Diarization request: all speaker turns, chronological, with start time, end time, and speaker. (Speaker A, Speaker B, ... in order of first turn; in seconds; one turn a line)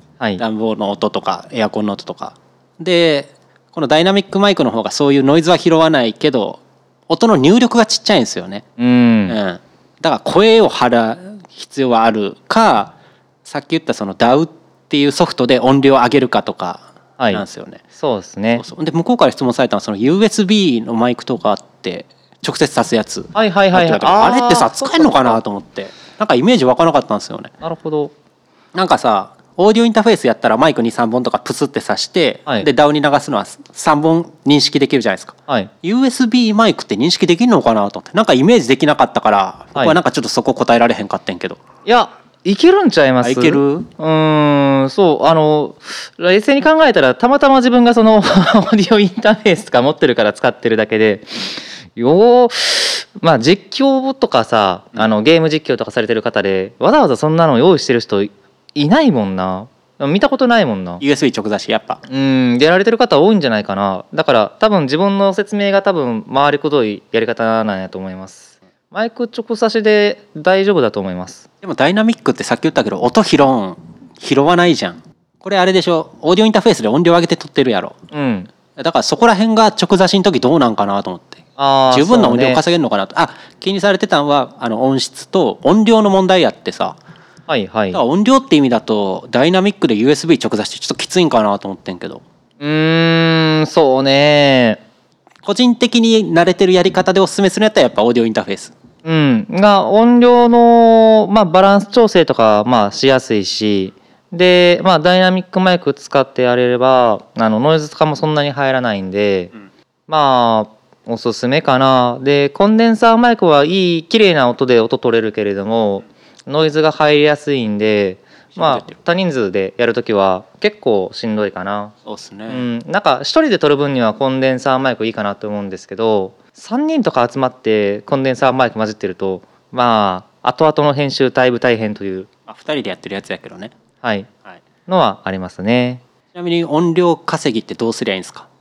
Speaker A: 0.4-8.6
Speaker B: 8.8-9.4
Speaker A: 9.3-17.8
Speaker B: 17.2-18.6
Speaker A: 18.6-27.5
Speaker B: 23.3-25.4
Speaker B: 27.6-28.1
Speaker A: 28.7-41.6
Speaker B: 41.8-51.4
Speaker A: 43.2-43.9
Speaker B: 52.0-61.0
Speaker A: 61.0-62.0
Speaker B: 62.1-71.5
Speaker A: 71.6-78.0
Speaker B: 78.1-78.5
Speaker A: 78.7-87.0
Speaker B: 81.6-82.6
Speaker B: 87.5-88.0
Speaker A: 87.9-92.2
Speaker B: 92.6-94.8
Speaker A: 95.4-98.7
Speaker B: 99.0-109.5
Speaker B: 110.1-121.9
Speaker A: 118.5-119.0
Speaker A: 122.0-122.7
Speaker B: 122.5-132.3
Speaker A: 132.5-133.7
Speaker B: 134.0-134.3
Speaker B: 134.9-136.0
Speaker A: 136.3-138.5